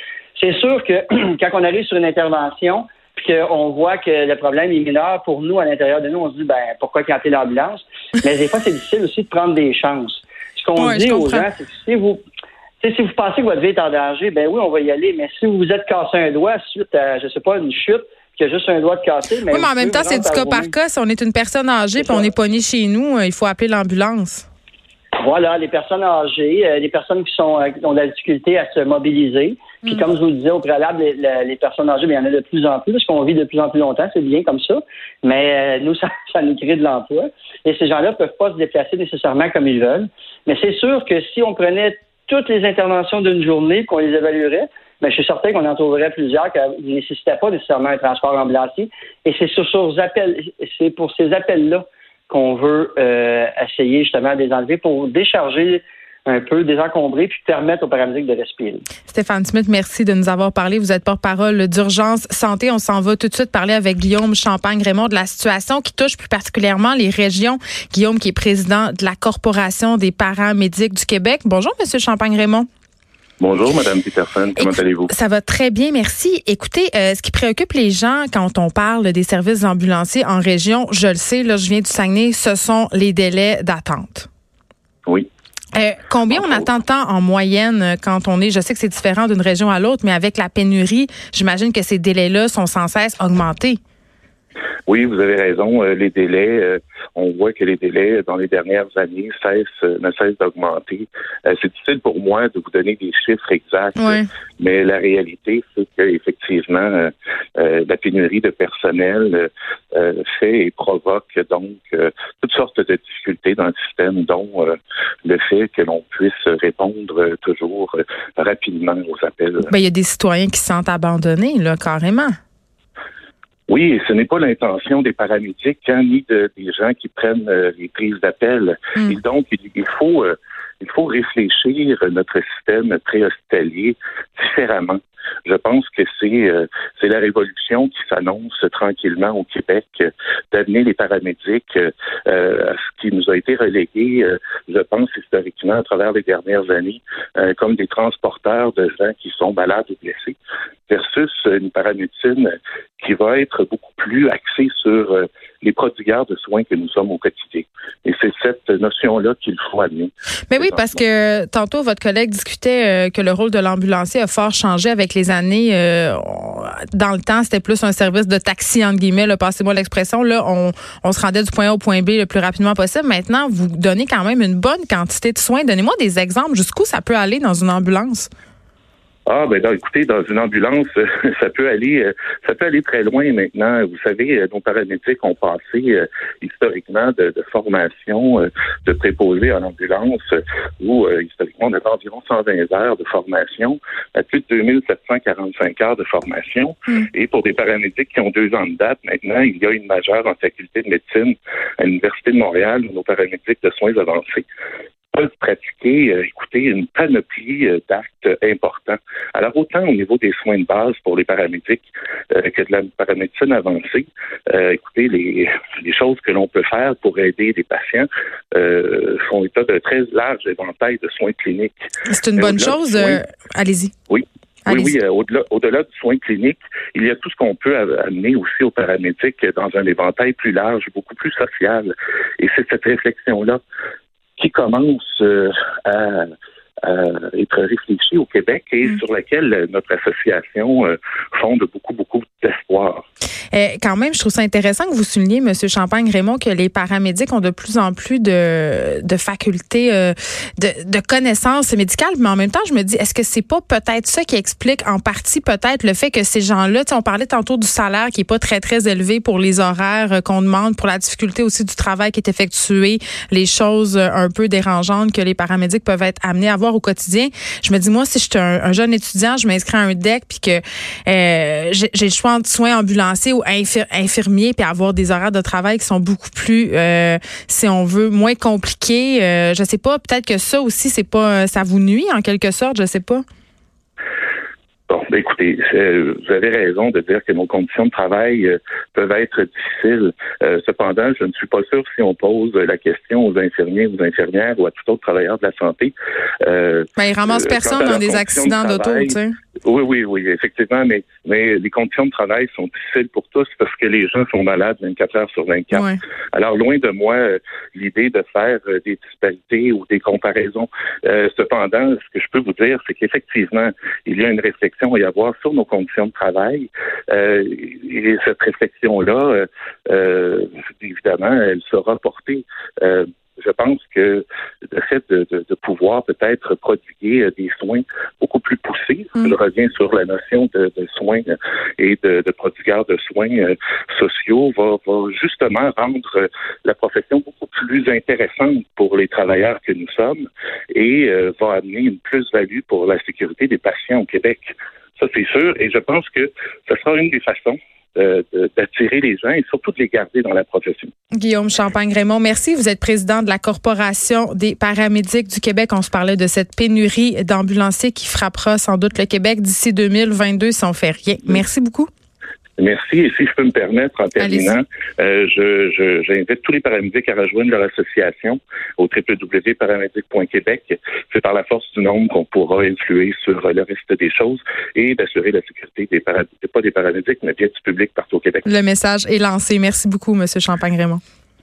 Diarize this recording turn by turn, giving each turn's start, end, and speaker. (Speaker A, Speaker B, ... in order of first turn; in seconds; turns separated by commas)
Speaker A: 0.4-12.2, Speaker B: 10.8-11.5, Speaker A: 12.8-20.7, Speaker B: 19.5-24.5, Speaker A: 22.0-22.3, Speaker A: 25.2-58.9, Speaker B: 59.1-72.7, Speaker C: 73.4-75.1, Speaker B: 74.6-84.3, Speaker B: 85.7-93.8, Speaker C: 94.9-119.7, Speaker B: 104.0-104.3, Speaker B: 119.7-122.3, Speaker C: 123.7-150.4, Speaker C: 150.9-160.9, Speaker B: 160.5-178.3, Speaker C: 179.3-204.4, Speaker C: 205.1-221.8, Speaker B: 222.1-223.9, Speaker C: 222.4-223.2, Speaker C: 224.1-233.6, Speaker B: 224.7-224.9, Speaker C: 234.4-236.3, Speaker C: 236.8-243.0, Speaker B: 243.5-283.2, Speaker C: 284.9-350.9, Speaker B: 297.0-299.3, Speaker B: 305.7-306.0, Speaker B: 351.2-361.9, Speaker C: 362.6-378.5, Speaker B: 364.2-364.6, Speaker B: 378.5-381.0